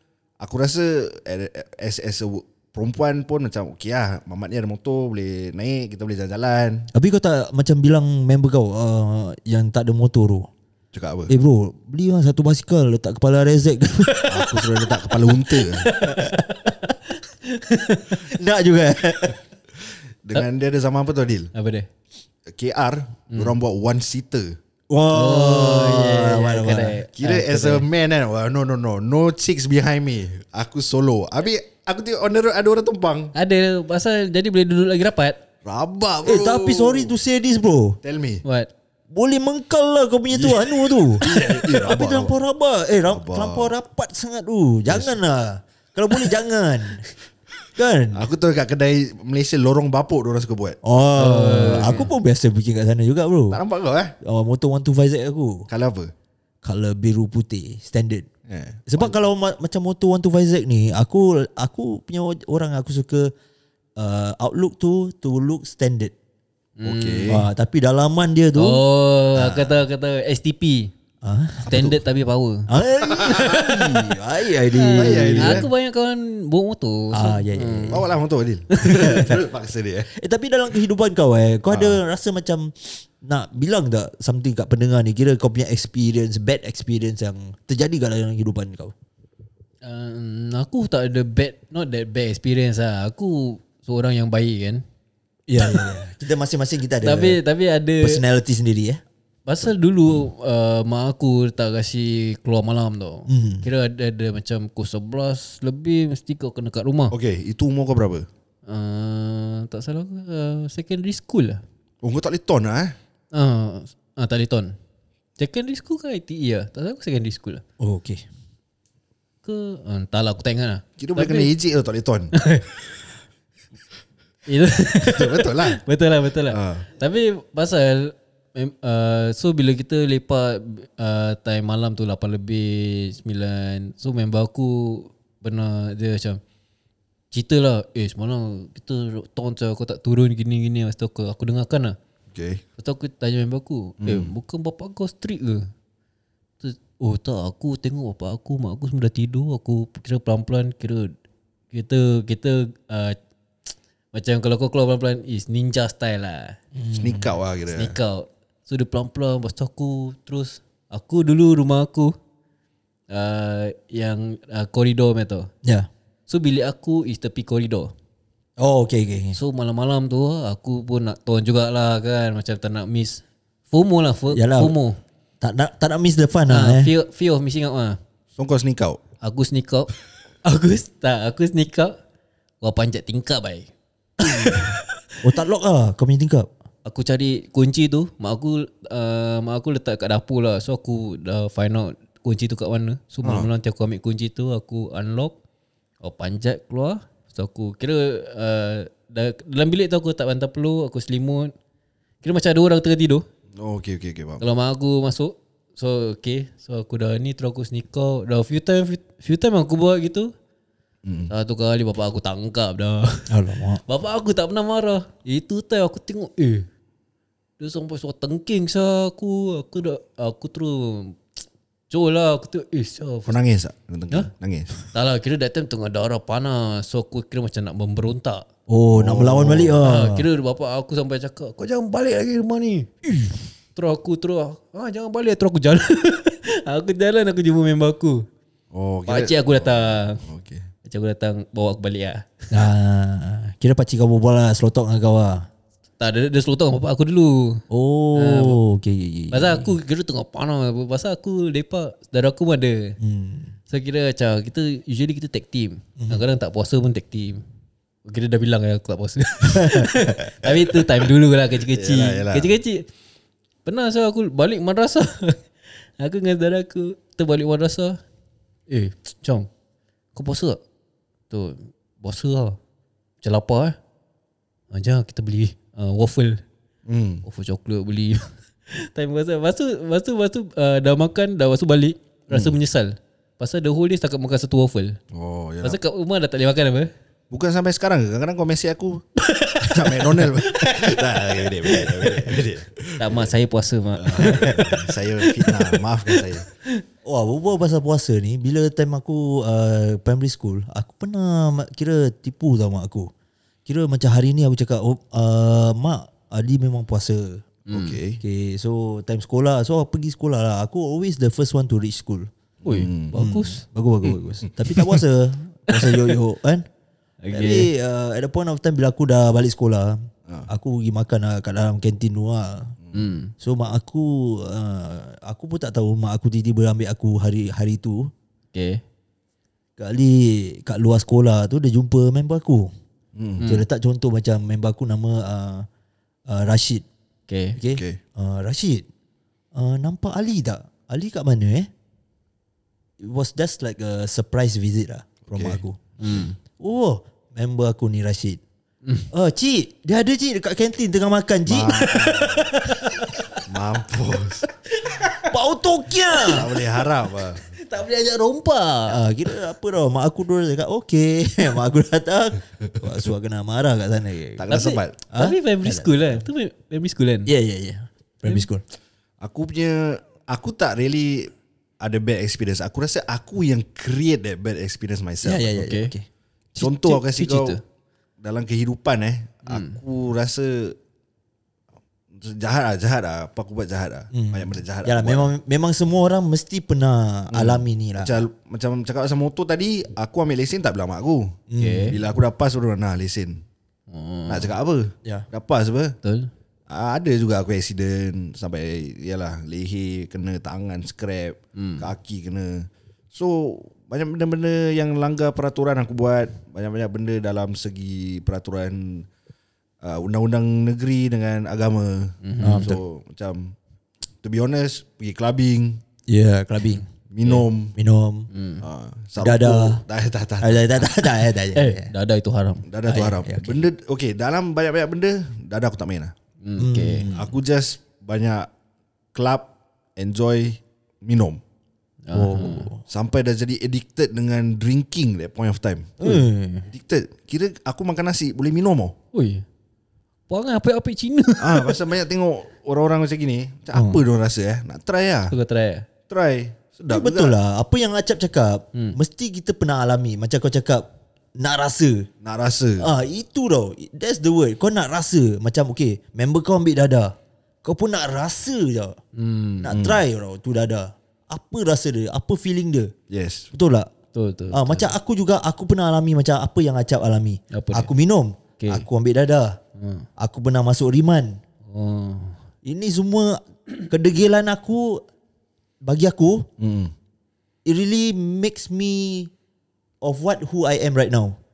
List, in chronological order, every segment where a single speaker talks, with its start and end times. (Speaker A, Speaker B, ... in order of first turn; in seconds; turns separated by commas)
Speaker A: 0.4-6.9, Speaker B: 6.9-10.5, Speaker A: 10.9-11.3, Speaker B: 11.3-14.6, Speaker A: 14.3-15.9, Speaker C: 15.8-16.7, Speaker B: 16.0-16.9, Speaker C: 17.5-18.2, Speaker B: 18.1-19.4, Speaker A: 20.2-21.5, Speaker C: 21.5-21.9, Speaker A: 22.5-24.6, Speaker B: 24.9-27.0, Speaker C: 25.1-27.9, Speaker A: 27.1-33.3, Speaker C: 33.3-35.4, Speaker A: 35.6-37.1, Speaker B: 36.2-38.0, Speaker A: 38.0-38.4, Speaker C: 38.4-38.7, Speaker B: 39.1-47.0, Speaker A: 40.3-42.3, Speaker A: 43.1-43.7, Speaker A: 44.9-45.2, Speaker B: 47.7-48.3, Speaker A: 48.1-50.8, Speaker B: 50.8-53.6, Speaker C: 51.2-52.1, Speaker A: 53.5-54.1, Speaker B: 54.2-55.7, Speaker A: 55.7-56.1, Speaker B: 56.6-58.3, Speaker A: 58.5-59.1, Speaker B: 58.9-63.3, Speaker B: 64.0-66.1, Speaker C: 66.8-67.4, Speaker A: 66.8-67.4, Speaker B: 67.3-68.8, Speaker C: 68.5-70.9, Speaker B: 71.2-72.0, Speaker C: 71.6-72.7, Speaker B: 72.7-75.7, Speaker A: 73.1-74.0, Speaker C: 73.2-73.6, Speaker C: 74.7-78.0, Speaker A: 75.0-75.7, Speaker B: 77.1-78.0, Speaker A: 77.9-80.1, Speaker C: 78.8-79.3, Speaker B: 78.8-79.4, Speaker B: 80.1-88.9, Speaker A: 81.7-82.0, Speaker C: 89.8-94.8, Speaker B: 95.5-97.4, Speaker C: 95.6-95.9, Speaker C: 97.0-98.2, Speaker B: 98.0-99.0, Speaker C: 99.5-107.1, Speaker B: 103.3-103.7, Speaker A: 107.1-108.3, Speaker C: 108.7-111.6, Speaker A: 112.0-112.9, Speaker C: 113.3-114.7, Speaker C: 115.4-117.6, Speaker B: 117.8-118.2, Speaker C: 119.4-121.5, Speaker A: 121.0-122.3, Speaker C: 122.3-122.7, Speaker C: 124.5-136.4, Speaker A: 125.0-125.8, Speaker A: 126.5-126.8, Speaker C: 137.3-142.0, Speaker A: 142.3-142.6, Speaker C: 142.8-145.7, Speaker A: 144.0-144.3, Speaker C: 146.6-151.1, Speaker C: 151.7-153.2, Speaker C: 154.1-156.6, Speaker B: 156.7-157.3, Speaker A: 157.0-157.9, Speaker C: 157.7-162.1, Speaker C: 163.1-165.5, Speaker C: 166.3-167.9, Speaker B: 168.6-169.4, Speaker C: 169.3-175.0, Speaker B: 174.3-174.8, Speaker B: 175.4-176.9, Speaker C: 176.5-178.0, Speaker A: 178.4-179.0, Speaker C: 179.2-179.9, Speaker C: 180.4-182.0, Speaker C: 182.6-184.9, Speaker B: 185.2-186.5, Speaker C: 186.8-195.3, Speaker A: 193.2-193.5, Speaker C: 196.0-201.5, Speaker C: 202.2-203.2, Speaker A: 203.5-204.4, Speaker C: 204.4-210.3, Speaker A: 211.0-211.3, Speaker C: 211.3-213.3, Speaker B: 213.3-213.8, Speaker C: 213.8-216.7, Speaker C: 217.6-221.2, Speaker C: 221.9-223.4, Speaker A: 223.3-224.8, Speaker C: 224.9-228.5, Speaker B: 228.7-230.2, Speaker A: 228.9-229.8, Speaker C: 229.8-232.9, Speaker C: 233.7-238.2, Speaker A: 238.7-240.7, Speaker C: 239.1-240.2, Speaker C: 240.8-242.3, Speaker B: 242.5-245.5, Speaker C: 246.0-247.6, Speaker B: 247.7-249.7, Speaker C: 248.2-248.6, Speaker C: 249.3-253.0, Speaker B: 253.0-253.5, Speaker C: 253.7-257.4, Speaker B: 256.0-256.2, Speaker C: 258.0-262.9, Speaker B: 259.5-260.1, Speaker A: 261.7-262.5, Speaker C: 263.6-265.4, Speaker C: 266.0-268.0, Speaker C: 268.7-269.5, Speaker C: 270.1-270.6, Speaker C: 271.3-272.6, Speaker C: 273.2-273.8, Speaker C: 274.7-276.4, Speaker A: 276.9-277.2, Speaker C: 277.2-285.0, Speaker A: 285.1-285.8, Speaker C: 285.6-286.9, Speaker A: 287.3-289.1, Speaker C: 289.2-292.3, Speaker A: 289.6-293.3, Speaker C: 293.0-296.2, Speaker A: 294.0-296.4, Speaker B: 294.2-294.6, Speaker B: 297.0-303.1, Speaker B: 303.6-307.4, Speaker C: 307.7-308.0, Speaker A: 307.7-308.2, Speaker B: 308.2-312.3, Speaker A: 312.6-313.2, Speaker C: 312.6-313.6, Speaker B: 313.1-316.7, Speaker C: 315.7-316.1, Speaker C: 317.2-317.7, Speaker B: 317.3-322.7, Speaker C: 322.9-323.3, Speaker B: 323.4-328.1, Speaker C: 328.5-328.8, Speaker B: 329.8-332.7, Speaker A: 333.1-333.4, Speaker C: 333.4-333.6, Speaker B: 333.5-335.7, Speaker B: 336.3-336.9, Speaker C: 337.3-337.6, Speaker B: 337.6-338.9, Speaker A: 337.7-338.0, Speaker B: 339.5-341.7, Speaker B: 343.0-345.8, Speaker A: 345.3-345.6, Speaker C: 346.0-346.4, Speaker B: 346.6-348.4, Speaker B: 349.1-353.0, Speaker A: 351.5-352.5, Speaker C: 352.4-353.4, Speaker A: 353.4-354.5, Speaker C: 354.7-355.3, Speaker B: 355.2-356.5, Speaker C: 356.1-356.8, Speaker A: 356.3-357.4, Speaker C: 357.4-359.0, Speaker B: 358.9-364.5, Speaker A: 364.4-365.0, Speaker C: 364.5-367.3, Speaker B: 365.1-366.2, Speaker B: 367.3-368.6, Speaker A: 369.2-375.5, Speaker B: 375.2-376.1, Speaker C: 375.5-375.9, Speaker C: 376.6-377.6, Speaker A: 376.6-377.6, Speaker A: 378.2-380.8, Speaker C: 379.4-379.8, Speaker A: 382.1-385.3, Speaker B: 384.1-388.2, Speaker A: 387.3-393.4, Speaker B: 391.5-392.0, Speaker C: 391.6-391.9, Speaker C: 393.9-394.5, Speaker A: 394.3-395.9, Speaker C: 396.0-396.3, Speaker A: 396.7-409.1, Speaker C: 401.6-401.9, Speaker A: 409.8-413.5, Speaker C: 412.2-412.7, Speaker B: 412.4-412.8, Speaker A: 414.2-415.8, Speaker B: 416.1-416.8, Speaker C: 416.7-417.4, Speaker A: 417.1-417.7, Speaker B: 417.7-418.3, Speaker C: 418.3-418.6, Speaker A: 418.6-421.0, Speaker B: 419.2-419.8, Speaker B: 420.4-421.9, Speaker C: 421.5-422.7, Speaker A: 422.7-426.1, Speaker B: 422.8-423.6, Speaker C: 426.4-427.1, Speaker B: 426.6-427.4, Speaker A: 427.1-428.5, Speaker A: 429.1-431.4, Speaker C: 432.1-432.7, Speaker B: 432.1-432.8, Speaker A: 432.9-436.0, Speaker B: 436.0-436.7, Speaker C: 436.0-436.3, Speaker A: 436.7-438.9, Speaker C: 439.1-439.4, Speaker C: 440.3-441.8, Speaker A: 441.4-445.3, Speaker B: 443.7-444.0, Speaker C: 445.3-445.9, Speaker A: 446.1-447.3, Speaker B: 446.9-452.1, Speaker A: 452.2-452.9, Speaker B: 452.8-459.0, Speaker C: 459.1-459.7, Speaker B: 459.6-462.9, Speaker A: 459.7-460.0, Speaker A: 463.1-463.5, Speaker B: 463.5-463.9, Speaker C: 464.1-464.9, Speaker B: 464.5-469.6, Speaker C: 467.5-467.9, Speaker C: 468.6-468.9, Speaker C: 469.8-470.1, Speaker B: 470.2-471.4, Speaker C: 471.7-472.4, Speaker B: 472.6-475.0, Speaker B: 475.8-476.5, Speaker A: 476.6-476.9, Speaker B: 477.6-479.3, Speaker B: 480.0-481.4